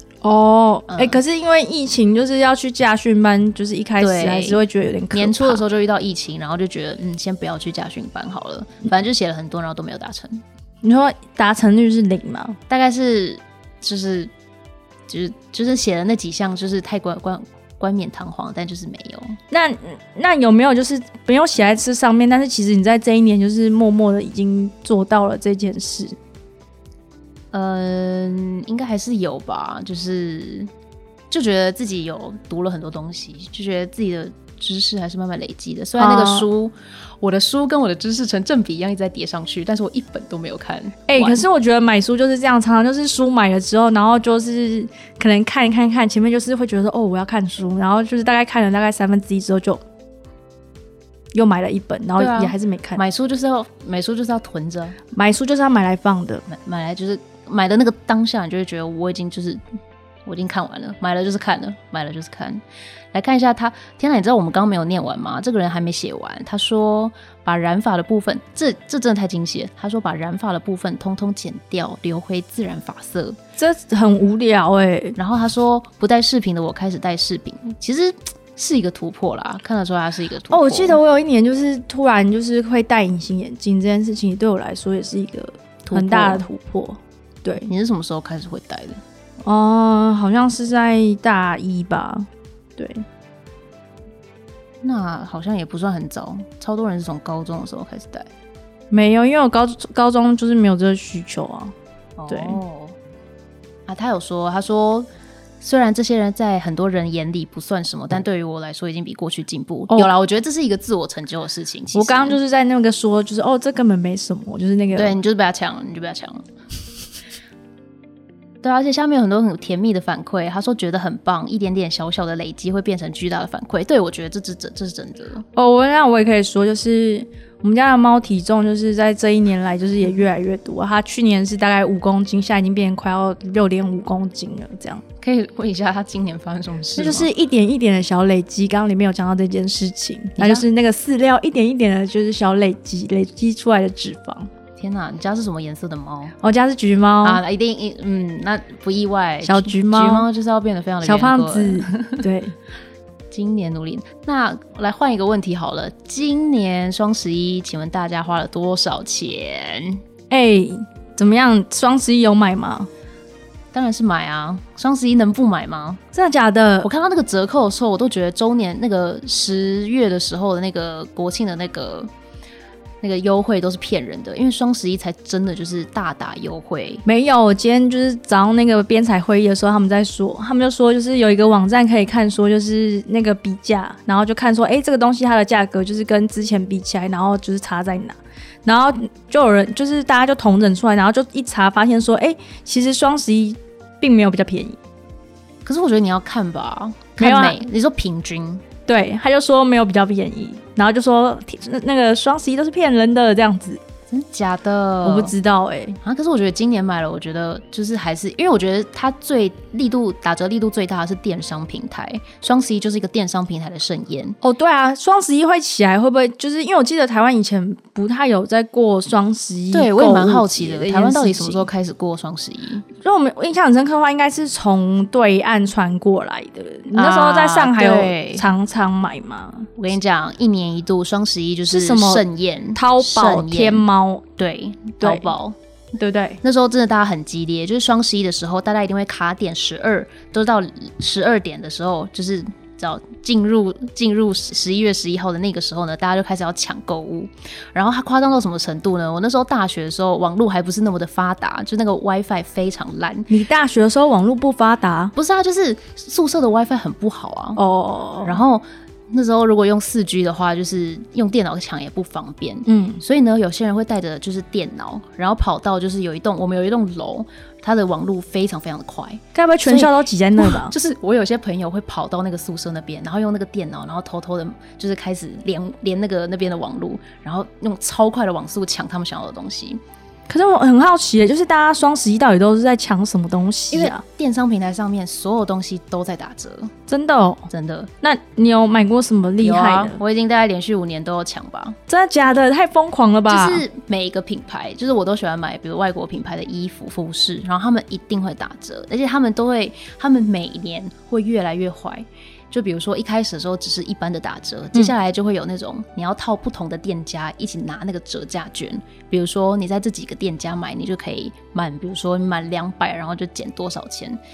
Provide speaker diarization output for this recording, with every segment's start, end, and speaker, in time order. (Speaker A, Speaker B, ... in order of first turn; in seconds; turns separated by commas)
Speaker A: 0.2-5.6, Speaker B: 0.9-1.2, Speaker B: 4.0-4.6, Speaker B: 5.1-10.4, Speaker A: 10.8-12.6, Speaker B: 12.7-14.3, Speaker B: 15.1-19.4, Speaker A: 19.5-26.1, Speaker B: 27.5-30.7, Speaker B: 31.3-41.4, Speaker A: 36.0-36.5, Speaker A: 41.1-49.8, Speaker A: 51.3-53.0, Speaker B: 52.2-55.0, Speaker A: 55.1-56.4, Speaker B: 56.5-59.6, Speaker B: 60.2-73.4, Speaker A: 73.6-75.2, Speaker B: 75.2-81.0, Speaker A: 80.5-87.7, Speaker B: 85.8-86.5, Speaker B: 87.6-89.0, Speaker A: 89.4-93.0, Speaker B: 94.8-98.3, Speaker A: 98.9-101.7, Speaker B: 102.2-103.0, Speaker A: 102.3-102.6, Speaker B: 103.9-105.1, Speaker B: 105.6-112.4, Speaker A: 111.9-115.2, Speaker B: 114.9-116.5, Speaker B: 118.6-125.4, Speaker A: 125.5-135.0, Speaker B: 135.2-137.3, Speaker A: 137.0-144.5, Speaker B: 140.4-140.7, Speaker B: 144.8-146.3, Speaker A: 146.4-147.4, Speaker B: 147.2-152.2, Speaker A: 149.4-150.3, Speaker A: 151.0-152.5, Speaker B: 153.3-160.0, Speaker A: 160.3-162.9, Speaker B: 163.7-166.0, Speaker A: 166.1-166.9, Speaker B: 166.8-172.1, Speaker B: 173.0-177.0, Speaker A: 177.0-194.8, Speaker B: 195.6-198.6, Speaker A: 197.2-197.6, Speaker A: 198.9-203.8, Speaker B: 204.1-205.3, Speaker A: 205.0-206.0, Speaker B: 206.0-214.4, Speaker A: 214.4-221.7, Speaker B: 219.7-222.8, Speaker A: 223.0-229.7, Speaker B: 226.9-228.5, Speaker B: 229.8-233.8, Speaker A: 231.7-232.2, Speaker A: 232.7-234.2, Speaker B: 234.4-235.6, Speaker A: 235.0-235.3, Speaker A: 236.0-236.4, Speaker B: 236.4-253.3, Speaker A: 253.3-255.1, Speaker B: 255.1-257.6, Speaker A: 257.6-258.4, Speaker B: 258.2-279.8, Speaker A: 262.6-263.0, Speaker A: 269.3-270.7, Speaker A: 280.3-284.0, Speaker B: 283.7-286.7, Speaker A: 286.9-287.5, Speaker B: 287.5-287.9, Speaker A: 288.0-290.0, Speaker B: 289.4-291.8, Speaker A: 291.9-293.6, Speaker B: 293.3-314.2